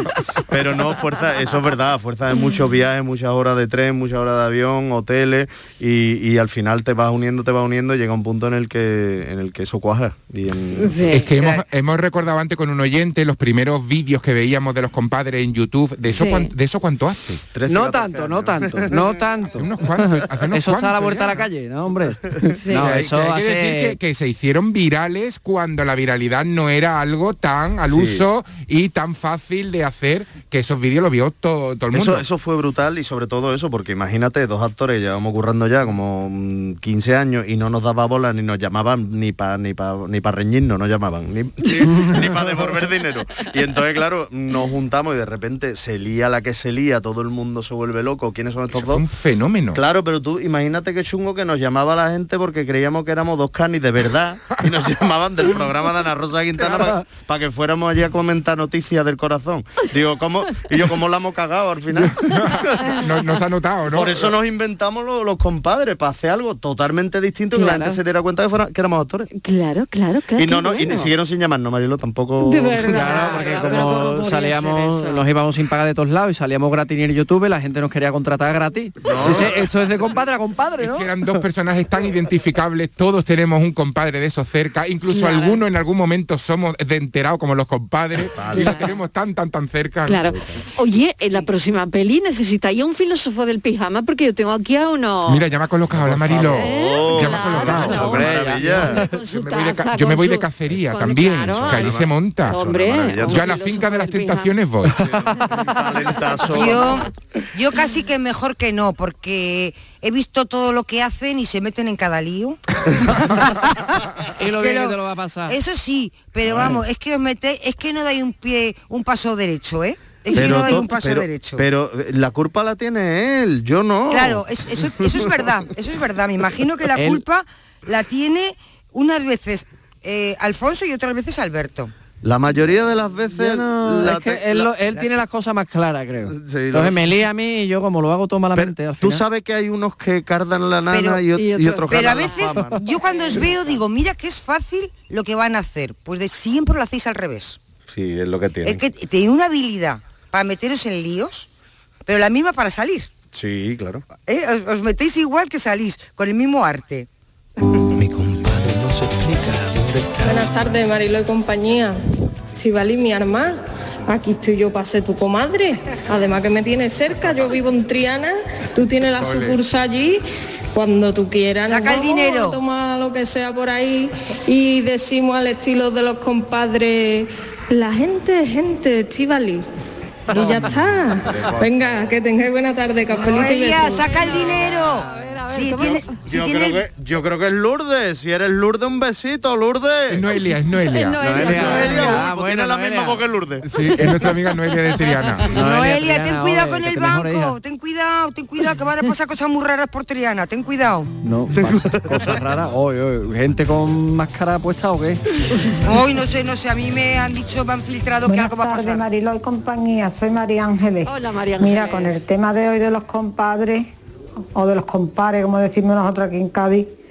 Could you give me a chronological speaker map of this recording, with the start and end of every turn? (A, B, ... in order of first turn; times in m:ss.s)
0:00.5-0:11.1 A
0:10.8-0:11.4 B
0:11.1-0:17.4 C
0:16.0-0:16.5 B
0:17.5-0:19.2 A
0:17.7-0:24.0 D
0:19.6-0:21.5 C
0:22.6-0:22.9 B
0:22.8-0:32.2 C
0:27.8-0:28.2 A
0:31.9-0:49.0 A
0:41.9-0:42.2 D
0:48.7-0:49.8 C
0:49.8-1:02.9 A
1:02.2-1:04.3 C
1:03.9-1:09.3 A
1:07.5-1:08.0 B
1:09.3-1:11.1 B
1:10.4-1:13.5 A
1:12.4-1:15.2 B
1:12.9-1:21.3 D
1:19.0-1:19.6 A
1:20.8-1:30.3 C
1:25.1-1:25.7 B
1:28.3-1:28.8 A
1:30.0-1:35.5 B
1:35.3-1:38.2 C
1:35.9-1:39.1 A
1:36.4-1:44.5 B
1:37.9-1:39.1 D
1:39.2-1:42.6 C
1:41.5-1:43.5 A
1:43.2-1:45.1 C
1:45.0-1:47.0 A
1:46.5-1:52.6 E
1:53.2-1:54.0 E
1:54.4-1:55.6 D
1:54.6-1:55.0 E
1:55.5-2:01.6 E
1:56.5-1:56.8 A
2:00.3-2:05.3 A
2:04.1-2:11.9 E
2:07.0-2:07.2 D
2:12.2-2:14.8 A
2:13.4-2:19.2 D
2:16.3-2:17.1 A
2:18.6-2:23.8 A
2:20.9-2:21.2 E
2:21.3-2:22.2 B
2:21.9-2:27.6 E
2:27.9-2:28.8 A
2:28.6-2:31.5 E
2:32.1-2:33.1 E
2:33.3-2:34.1 A
2:34.3-2:37.1 E
2:40.2-2:42.0 F
2:42.6-2:50.2 F
2:49.2-2:49.6 C
2:50.7-2:59.6 F
2:51.6-2:52.6 E
3:00.3-3:04.1 F
3:01.3-3:02.1 A
3:03.2-3:06.9 E
3:04.0-3:06.2 B
3:06.3-3:10.3 A
3:10.1-3:11.8 C
3:10.9-3:12.2 B
3:11.2-3:13.2 D
3:11.4-3:13.7 A
3:13.6-3:15.5 C
3:15.5-3:17.6 D
3:15.5-3:21.1 E
3:21.2-3:25.2 D
3:21.6-3:22.4 A
3:25.8-3:29.0 E
3:28.3-3:33.9 G
3:31.1-3:32.2 B
3:34.6-3:36.9 G